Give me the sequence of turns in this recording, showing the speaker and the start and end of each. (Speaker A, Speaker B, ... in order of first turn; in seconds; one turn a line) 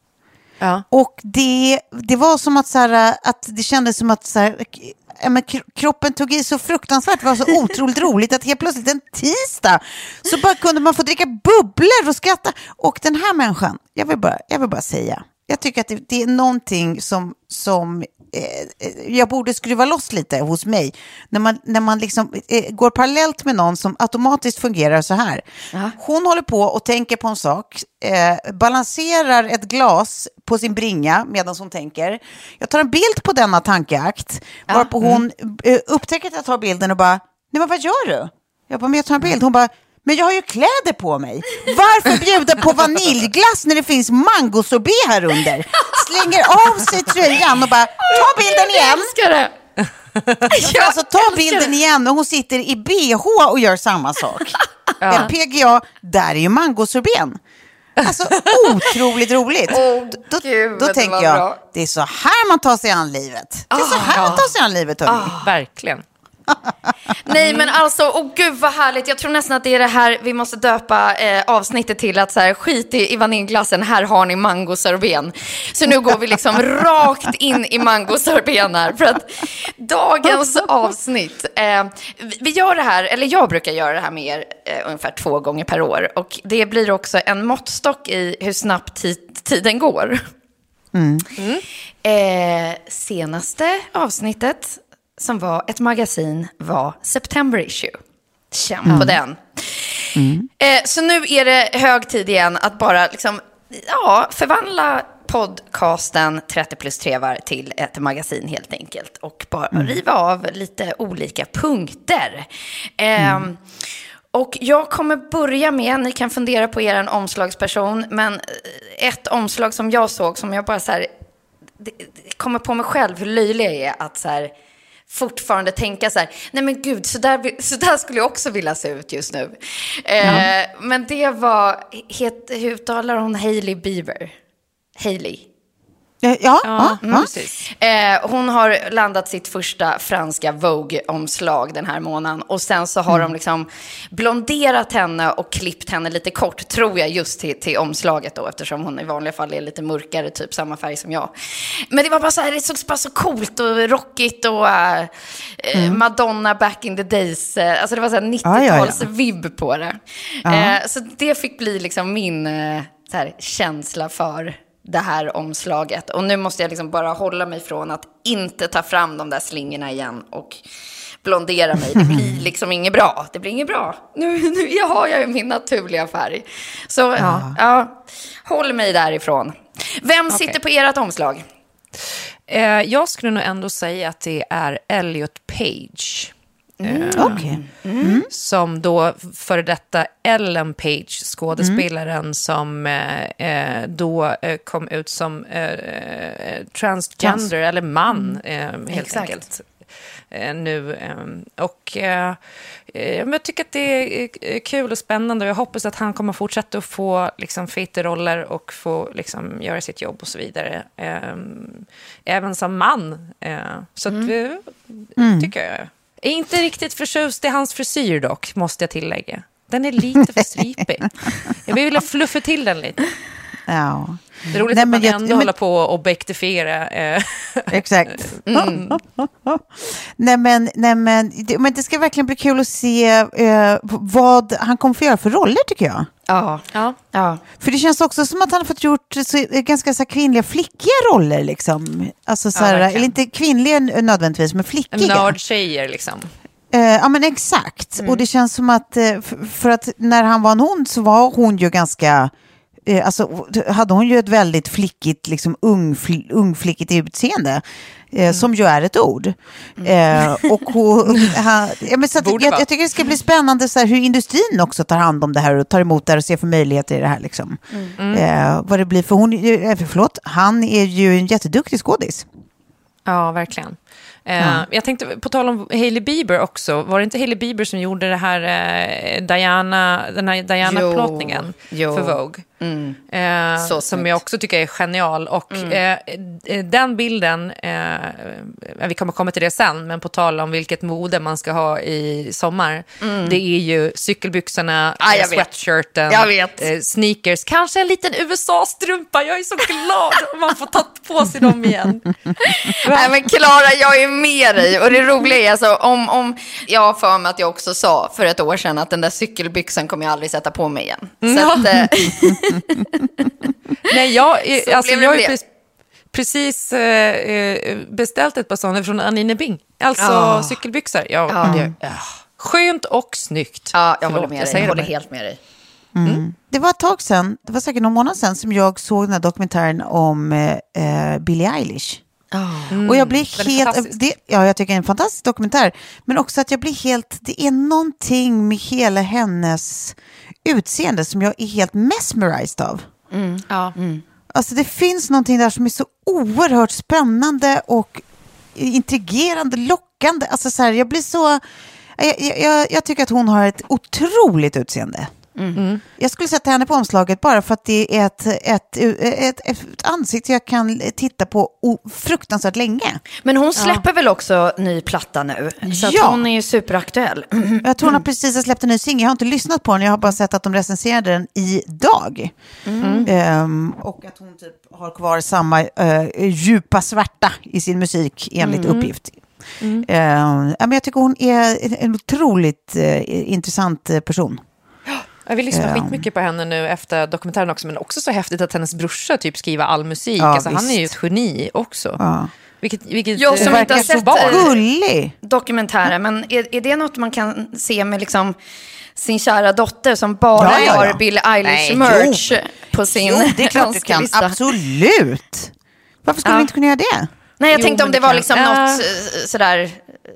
Speaker A: 0.9-25.4
Speaker A: 25.9-49.1
Speaker B: 48.0-49.5
Speaker C: 50.2-50.4
Speaker B: 50.5-51.7
Speaker A: 50.5-57.4
Speaker C: 55.0-55.3
Speaker C: 58.0-58.5
Speaker A: 58.0-65.3
Speaker B: 59.7-61.6
Speaker B: 63.7-64.5
Speaker C: 64.1-64.4
Speaker B: 65.0-65.5
Speaker C: 65.4-66.0
Speaker B: 67.2-90.2
Speaker C: 67.3-67.7
Speaker A: 90.9-91.2
Speaker C: 91.4-91.6
Speaker B: 92.0-98.0
Speaker B: 98.5-112.5
Speaker A: 98.8-99.2
Speaker A: 100.1-100.5
Speaker A: 109.7-110.0
Speaker B: 113.0-113.6
Speaker A: 113.2-113.5
Speaker B: 114.3-121.1
Speaker B: 121.8-124.5
Speaker B: 125.1-134.3
Speaker A: 130.2-130.5
Speaker B: 135.0-135.4
Speaker A: 136.2-137.2
Speaker C: 136.6-137.6
Speaker B: 137.0-170.6
Speaker A: 155.7-156.0
Speaker A: 158.4-159.0
Speaker A: 160.4-160.8
Speaker B: 171.2-181.4
Speaker A: 171.9-172.2
Speaker A: 177.2-177.5
Speaker C: 180.3-180.6
Speaker C: 182.5-186.3
Speaker B: 186.8-188.2
Speaker C: 186.8-187.4
Speaker A: 187.2-188.3
Speaker C: 188.3-199.6
Speaker A: 191.6-191.8
Speaker A: 197.2-197.5
Speaker B: 198.9-199.4
Speaker C: 200.3-202.4
Speaker C: 202.9-223.1
Speaker A: 215.2-215.5
Speaker A: 223.7-225.5
Speaker C: 224.5-228.4
Speaker A: 227.7-236.1
Speaker B: 228.5-228.9
Speaker B: 236.3-237.4
Speaker A: 237.6-245.3
Speaker C: 242.5-243.1
Speaker C: 244.9-246.3
Speaker A: 246.7-252.3
Speaker A: 252.8-272.2
Speaker B: 259.8-260.5
Speaker C: 262.2-262.6
Speaker C: 268.0-268.2
Speaker C: 273.1-282.4
Speaker A: 274.4-274.6
Speaker B: 280.6-283.0
Speaker C: 283.1-302.1
Speaker B: 283.6-284.2
Speaker B: 285.5-285.8
Speaker B: 293.0-293.4
Speaker B: 295.0-295.5
Speaker B: 296.1-296.7
Speaker B: 302.4-313.4
Speaker C: 302.7-303.1
Speaker C: 311.2-311.6
Speaker C: 313.8-315.4
Speaker B: 314.5-315.4
Speaker C: 316.1-324.9
Speaker B: 320.0-320.6
Speaker B: 321.3-321.7
Speaker A: 321.4-321.7
Speaker B: 323.7-325.4
Speaker A: 324.5-324.8
Speaker A: 325.9-332.0
Speaker B: 332.3-332.8
Speaker C: 332.7-334.0
Speaker A: 332.8-342.8
Speaker B: 343.1-344.0
Speaker A: 344.3-348.0
Speaker A: 348.5-351.4
Speaker A: 352.0-355.1
Speaker B: 355.4-355.6
Speaker C: 355.5-355.8
Speaker A: 356.0-363.0
Speaker B: 363.2-368.0
Speaker C: 363.6-363.8
Speaker A: 365.6-366.2
Speaker A: 367.6-372.3
Speaker B: 372.6-373.1
Speaker C: 372.8-373.1
Speaker A: 373.0-379.2
Speaker C: 378.4-378.9
Speaker C: 379.6-379.9
Speaker A: 379.8-384.4
Speaker C: 384.9-392.0
Speaker A: 385.5-386.0
Speaker A: 390.2-390.9
Speaker A: 392.0-392.3
Speaker C: 392.6-394.5
Speaker B: 393.2-394.6
Speaker A: 393.4-395.1
Speaker B: 395.2-398.4
Speaker B: 399.0-404.4
Speaker A: 400.4-402.2
Speaker A: 402.9-405.5
Speaker A: 406.0-407.1
Speaker B: 406.2-406.5
Speaker B: 407.4-410.0
Speaker C: 407.5-408.8